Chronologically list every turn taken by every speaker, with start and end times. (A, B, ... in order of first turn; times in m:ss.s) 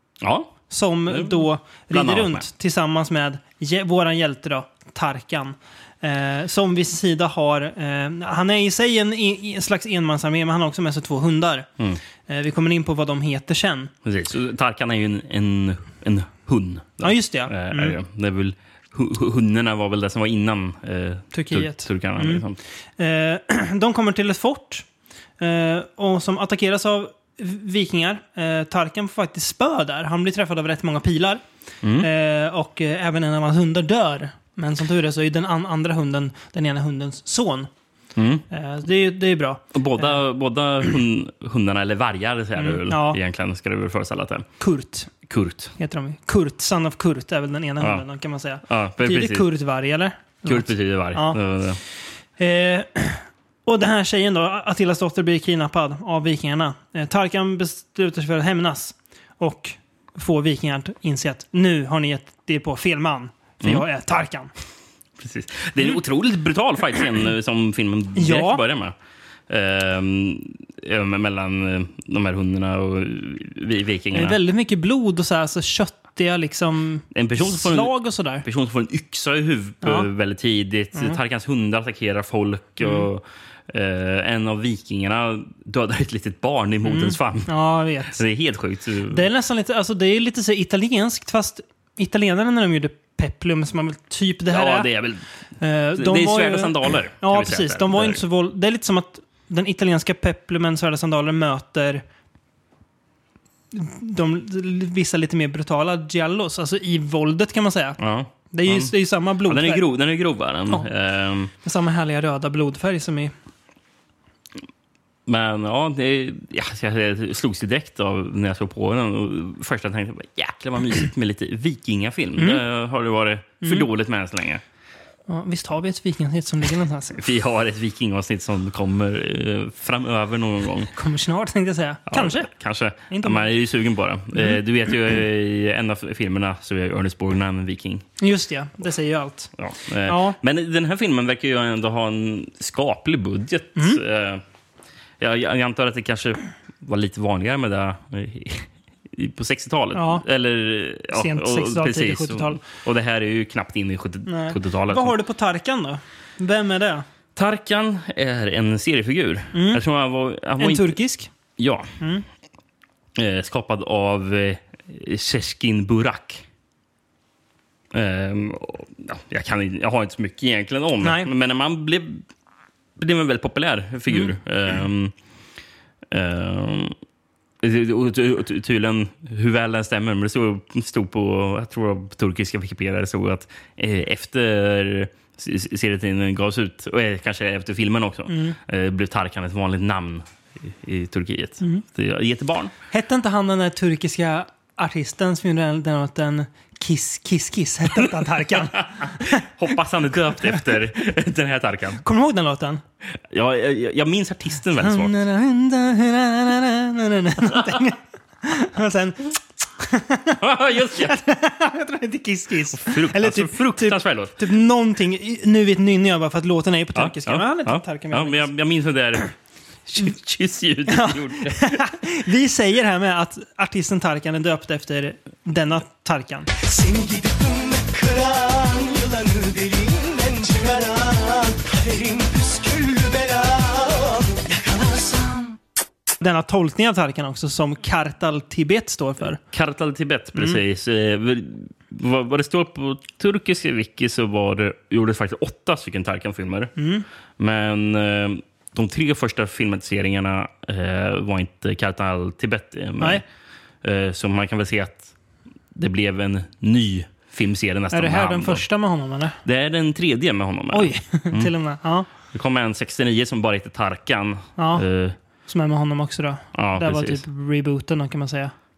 0:00.2-0:00.6 A
0:00.7-0:11.7 B
0:01.1-0:02.4 A
0:12.3-0:13.9 B
0:14.0-0:22.6 A
0:17.0-0:18.0 B
0:21.3-0:22.4 B
0:23.0-0:24.9 B
0:25.4-0:31.4 B
0:31.8-0:32.1 A
0:32.0-0:37.7 B
0:38.2-0:38.4 A
0:38.5-0:40.1 B
0:39.7-0:44.5 A
0:42.6-0:43.2 B
0:44.6-0:45.1 B
0:45.2-0:45.7 A
0:45.8-0:51.4 B
0:48.6-0:49.4 A
0:50.4-0:51.8 A
0:52.4-1:04.5 B
1:05.2-1:08.9 A
1:08.1-1:08.6 B
1:09.5-1:14.4 A
1:14.1-1:18.4 B
1:17.1-1:27.5 A
1:19.8-1:20.1 B
1:26.8-1:28.2 B
1:28.1-1:29.2 A
1:29.1-1:34.9 B
1:34.5-1:35.2 A
1:35.6-1:42.0 B
1:36.0-1:38.2 A
1:43.7-1:48.0 B
1:48.0-1:48.9 A
1:48.5-1:49.9 B
1:49.4-1:51.5 A
1:51.6-1:53.3 B
1:55.2-2:04.6 A
2:02.4-2:02.6 B
2:03.6-2:03.9 B
2:05.3-2:07.2 B
2:07.2-2:10.9 A
2:10.9-2:12.5 B
2:12.1-2:18.0 A
2:13.1-2:13.4 B
2:18.2-2:19.5 B
2:19.6-2:24.4 A
2:20.0-2:20.4 B
2:25.2-2:35.1 A
2:29.9-2:30.2 B
2:31.1-2:32.6 B
2:34.2-2:37.0 B
2:37.4-2:41.0 A
2:39.5-2:39.8 B
2:40.6-2:41.3 B
2:41.6-2:41.9 A
2:42.0-2:42.2 B
2:43.2-2:46.4 A
2:47.9-2:52.2 A
2:51.0-2:51.3 B
2:53.0-2:55.1 A
2:56.1-2:56.9 A
2:57.6-3:12.7 A
3:08.3-3:08.6 B
3:12.9-3:19.5 B
3:18.9-3:22.0 A
3:22.0-3:22.8 B
3:23.3-3:25.1 A
3:24.8-3:38.5 B
3:30.4-3:31.2 A
3:32.7-3:34.4 A
3:36.9-3:39.3 A
3:39.9-3:41.8 A
3:40.9-3:46.8 B
3:47.0-3:55.0 C
3:56.2-3:59.4 B
3:59.4-4:06.7 A
4:06.8-4:07.0 B
4:07.4-4:13.2 A
4:13.8-4:15.1 A
4:15.7-4:18.6 A
4:17.9-4:19.4 B
4:19.4-4:21.5 A
4:20.7-4:22.1 B
4:22.3-4:25.2 A
4:24.6-4:24.9 B
4:25.4-4:28.5 B
4:26.5-4:27.2 A